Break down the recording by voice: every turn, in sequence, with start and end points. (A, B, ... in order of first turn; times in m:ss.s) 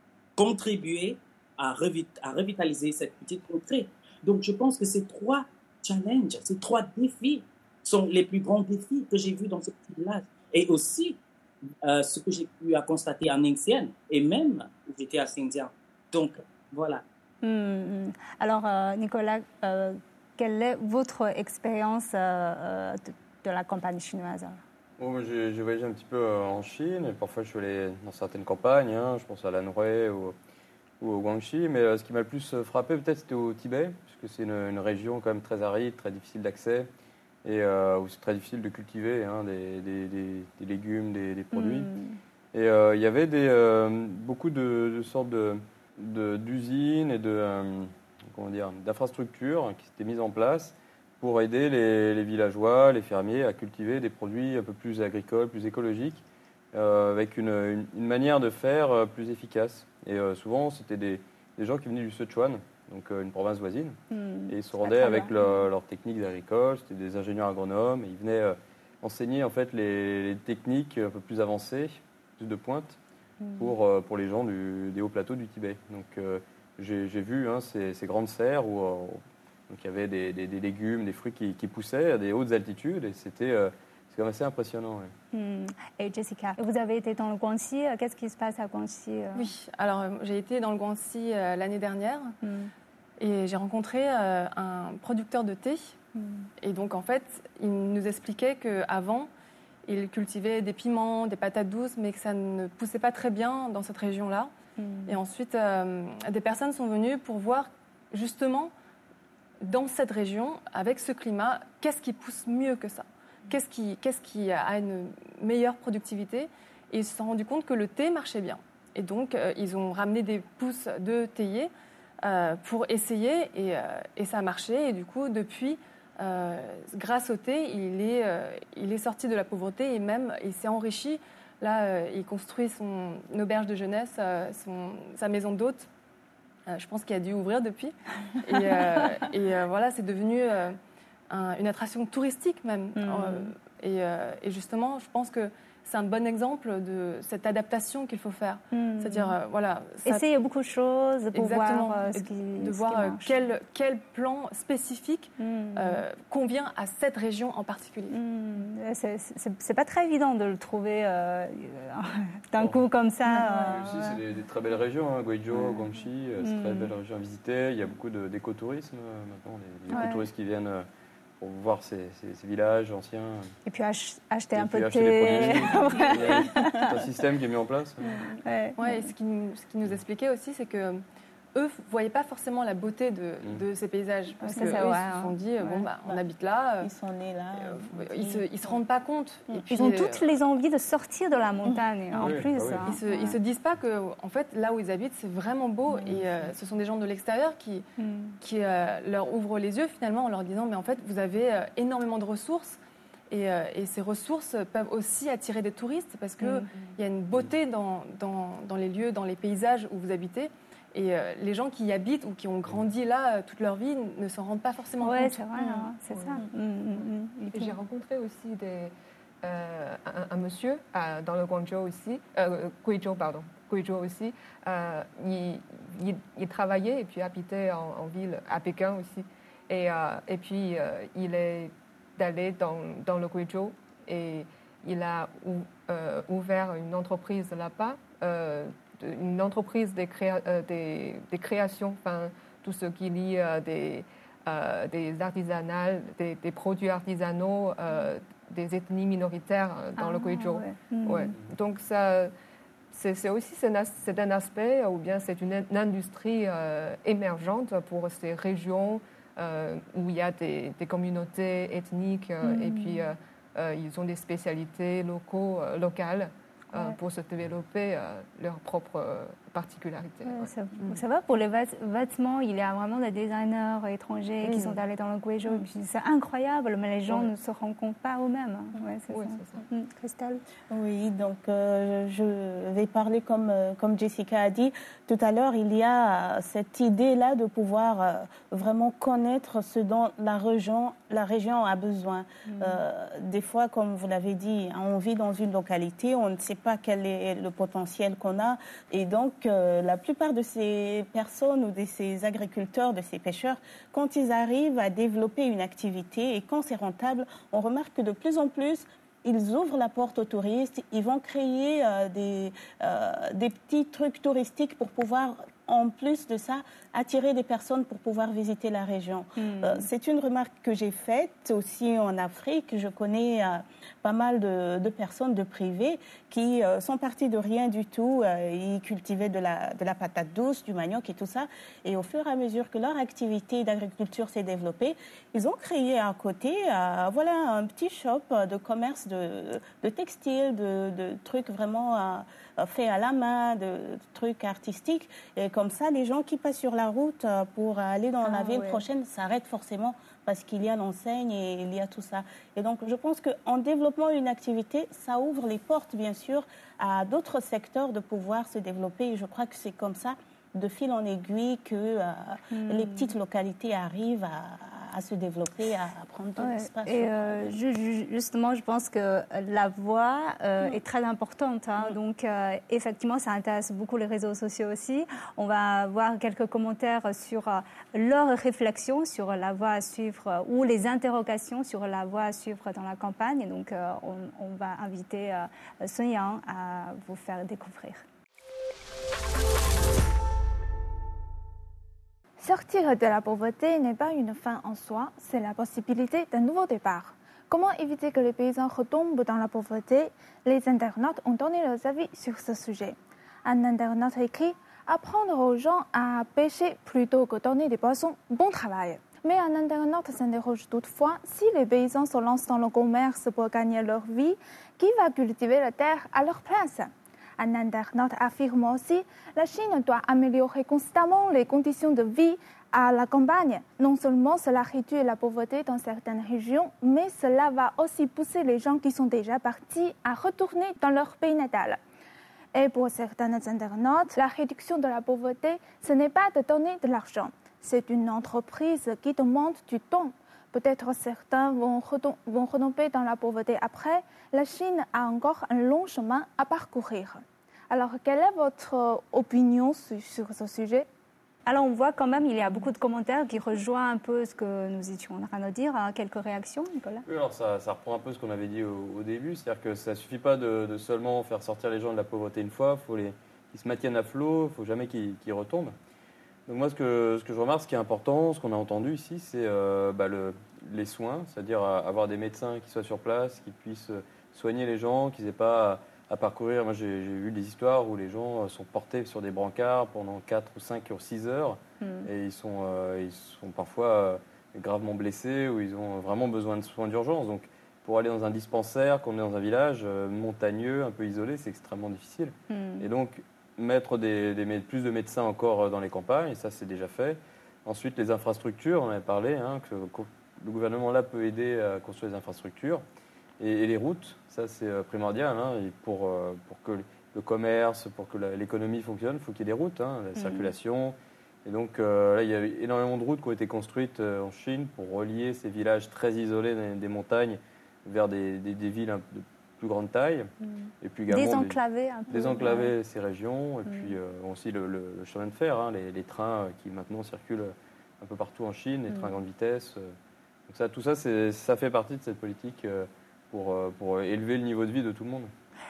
0:00.4-0:11.2 A
0:11.8-0:17.0 A
0:17.4-0:24.6 B
0:25.0-0:30.4 C
0:31.0-0:36.9 C
0:37.4-0:41.9 C
0:41.5-0:42.2 B
0:42.5-1:04.0 C
1:04.1-1:05.7 B
1:04.5-1:13.0 C
1:13.4-1:13.8 B
1:13.6-1:25.1 C
1:25.3-1:29.5 B
1:29.4-1:32.4 D
1:32.4-1:32.7 B
1:33.2-1:36.0 D
1:36.2-1:36.5 B
1:36.6-1:39.3 D
1:39.9-1:44.5 D
1:44.8-1:45.2 B
1:45.1-1:48.7 D
1:49.6-2:01.7 D
2:02.2-2:15.9 D
2:16.7-2:20.8 D
2:21.3-2:30.2 D
2:23.0-2:23.5 B
2:28.7-2:29.4 B
2:30.0-2:33.3 B
2:31.3-2:38.2 D
2:35.4-2:36.0 B
2:38.1-2:44.2 B
2:42.6-2:50.9 C
2:45.5-2:45.8 B
2:46.4-2:46.9 B
2:49.9-2:50.2 B
2:51.4-2:53.5 C
2:53.7-2:56.9 B
2:54.5-2:58.3 C
2:58.4-2:59.1 B
2:58.8-3:01.0 D
3:01.6-3:06.9 D
3:04.4-3:05.3 B
3:06.8-3:08.8 E
3:07.6-3:10.2 D
3:09.7-3:13.4 B
3:12.2-3:13.0 C
3:12.8-3:17.9 D
3:15.9-3:16.2 B
3:18.0-3:18.4 B
3:18.4-3:22.8 D
3:23.3-3:35.6 D
3:26.4-3:26.7 B
3:35.0-3:37.8 B
3:36.0-4:12.3 F
4:10.0-4:11.3 B
4:12.9-4:31.0 F
4:22.4-4:23.1 B
4:30.2-4:40.4 B
4:34.4-4:34.8 F
4:37.1-4:37.3 F
4:39.1-4:39.6 F
4:40.7-6:07.6 E
4:52.5-4:52.8 B
5:19.4-5:19.9 B
5:48.2-5:48.8 B
6:02.5-6:03.1 B
6:06.4-6:28.0 B
6:32.4-7:11.8 G
7:12.6-7:30.9 G
7:31.5-7:37.0 B
7:37.1-7:45.7 C
7:46.5-8:22.8 C
8:01.8-8:02.1 B
8:12.5-8:12.9 B
8:23.4-8:40.3 C
8:30.2-8:30.5 B
8:40.4-8:42.7 B
8:40.8-8:50.0 C
8:43.7-8:44.0 B
8:48.9-8:49.2 B
8:50.5-8:55.3 C